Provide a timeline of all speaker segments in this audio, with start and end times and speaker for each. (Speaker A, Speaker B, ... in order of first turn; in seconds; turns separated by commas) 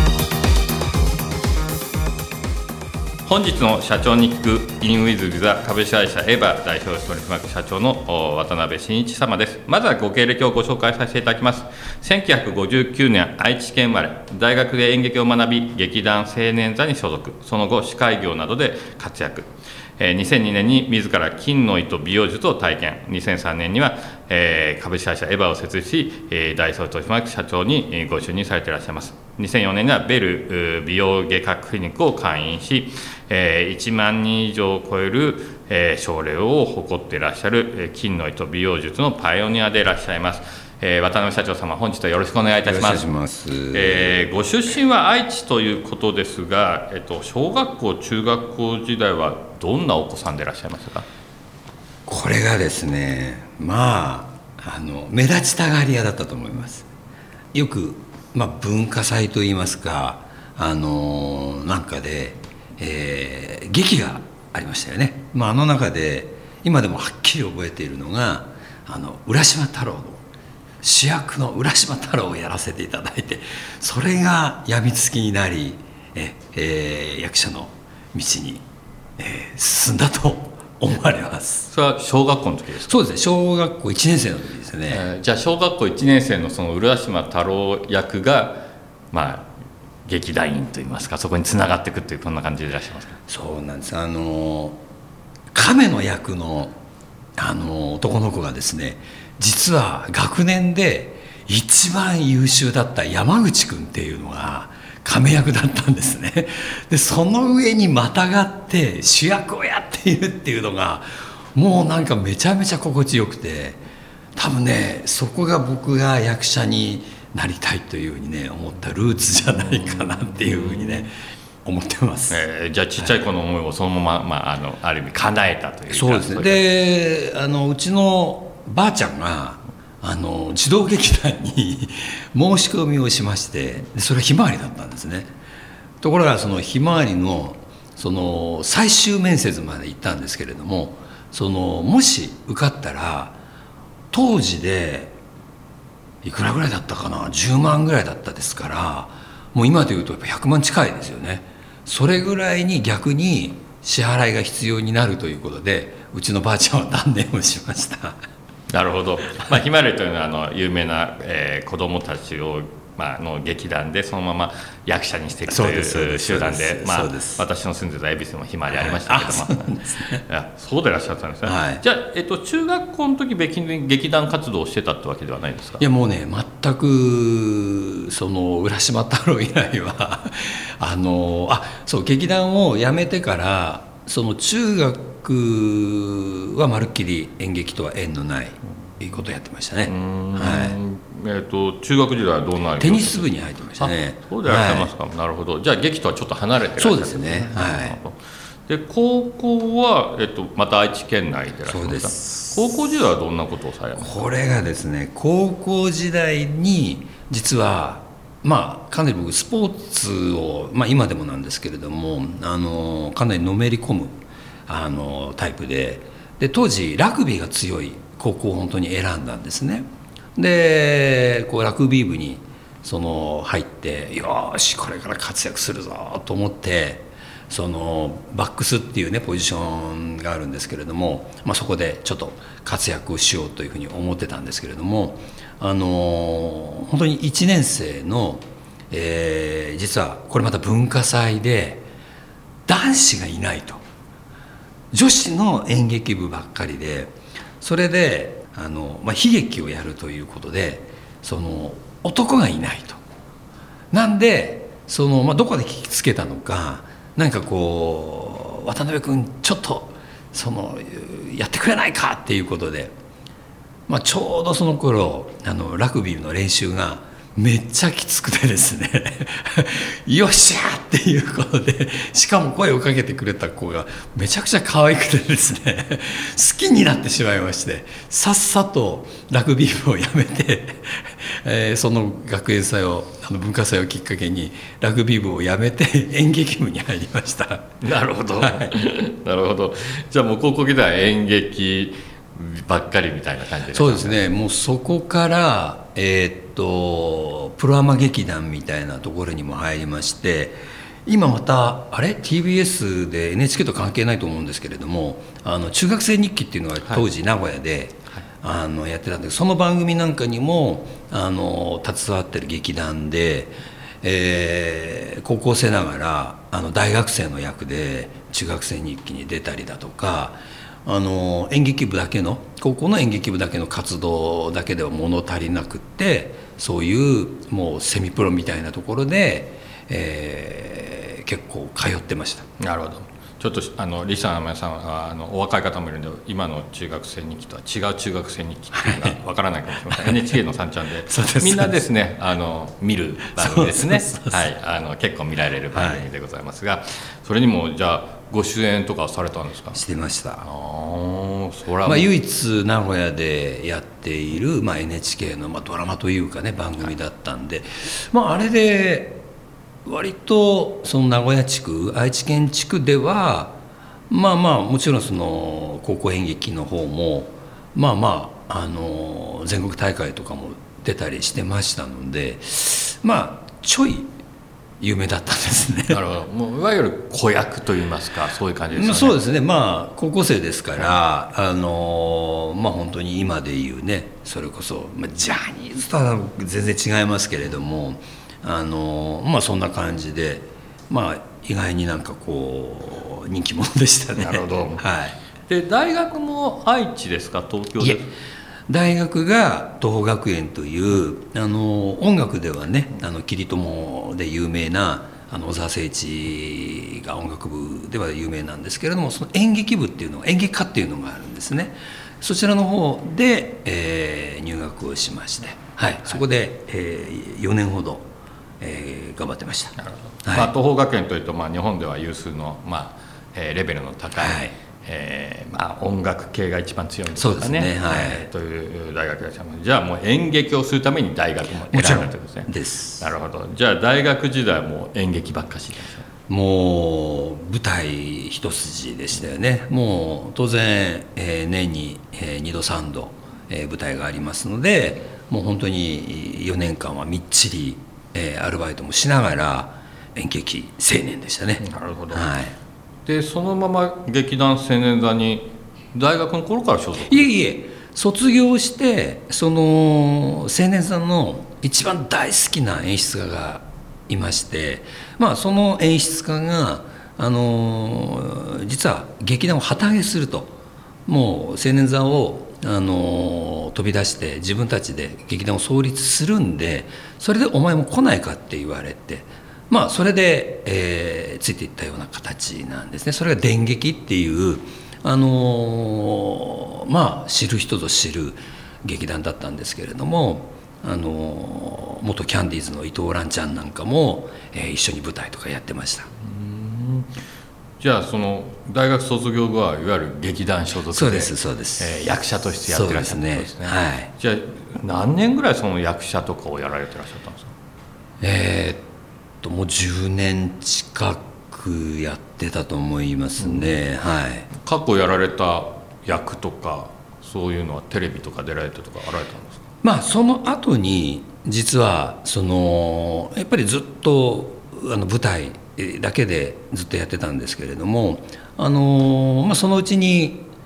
Speaker A: 3.3-43.0, Speaker B: 42.6-44.3, Speaker A: 43.7-51.0, Speaker B: 52.1-56.9, Speaker B: 57.5-70.2, Speaker B: 70.8-78.6, Speaker B: 79.2-81.7, Speaker A: 81.7-82.9, Speaker B: 82.8-85.1, Speaker A: 84.9-89.5, Speaker A: 90.1-93.2, Speaker B: 93.3-94.8, Speaker B: 95.5-96.8, Speaker B: 97.4-113.8, Speaker B: 114.4-122.4, Speaker A: 120.0-121.1, Speaker A: 122.3-126.6, Speaker B: 125.9-135.3, Speaker B: 136.0-143.4, Speaker B: 144.1-145.2, Speaker B: 146.2-158.2, Speaker A: 158.7-175.8, Speaker B: 165.5-167.4, Speaker B: 168.7-170.2, Speaker B: 171.4-171.8, Speaker B: 175.8-190.8, Speaker A: 189.9-204.3, Speaker B: 192.8-194.9, Speaker B: 196.8-198.0, Speaker B: 201.7-202.7, Speaker B: 204.0-241.9, Speaker B: 242.7-243.8, Speaker B: 244.9-253.0, Speaker B: 253.9-263.0, Speaker B: 263.9-287.7, Speaker A: 287.8-294.2, Speaker B: 288.4-288.7, Speaker B: 293.7-332.5, Speaker A: 332.6-349.8, Speaker B: 338.7-339.2, Speaker B: 339.9-340.3, Speaker B: 341.1-341.8, Speaker B: 343.3-344.5, Speaker B: 345.7-346.1, Speaker B: 349.7-350.5, Speaker A: 350.4-352.1, Speaker B: 351.8-359.2, Speaker B: 359.9-363.6, Speaker B: 364.1-374.1, Speaker B: 374.8-376.0, Speaker A: 375.9-379.2, Speaker B: 378.8-395.2, Speaker A: 394.2-394.9, Speaker A: 395.5-398.1, Speaker B: 397.8-398.1, Speaker B: 398.7-418.1, Speaker B: 418.6-420.5, Speaker A: 419.8-436.0, Speaker B: 424.2-424.6, Speaker B: 427.1-428.3, Speaker B: 431.7-433.1, Speaker B: 436.3-452.6, Speaker A: 451.6-452.3, Speaker A: 453.1-457.3, Speaker B: 457.0-496.1, Speaker A: 496.2-497.1, Speaker A: 497.8-507.5, Speaker B: 500.9-504.1, Speaker B: 508.2-508.9, Speaker B: 509.4-514.5, Speaker A: 513.4-513.8, Speaker A: 514.6-519.6, Speaker B: 519.8-530.5